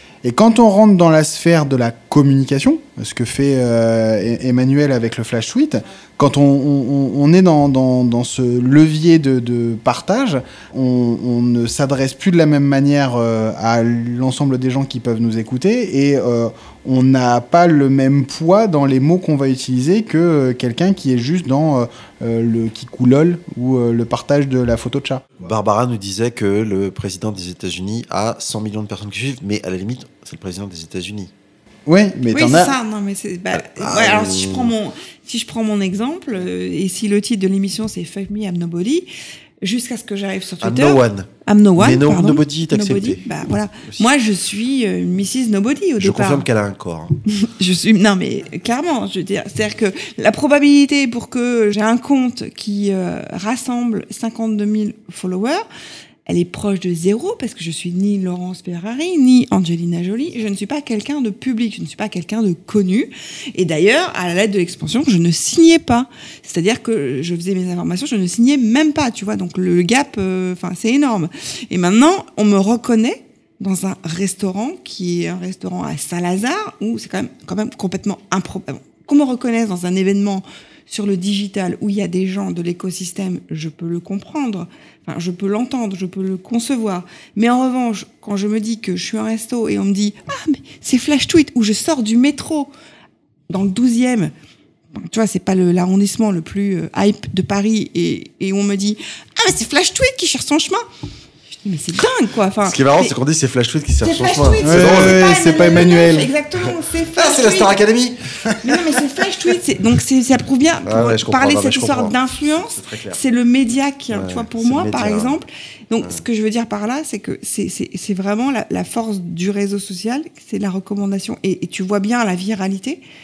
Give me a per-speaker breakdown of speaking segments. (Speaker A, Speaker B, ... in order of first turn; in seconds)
Speaker A: 0.2-25.3, 31.9-32.8, 104.6-106.3
Speaker B: 25.4-31.3, 33.6-34.7, 40.6-43.3, 46.0-47.2, 102.6-106.0, 107.2-108.8, 110.8-113.2, 114.1-115.4
Speaker C: 32.3-39.1, 39.6-46.5, 47.3-55.6, 56.2-92.7, 93.5-94.3, 94.9-100.8, 101.5-103.1, 104.0-107.8, 108.6-123.0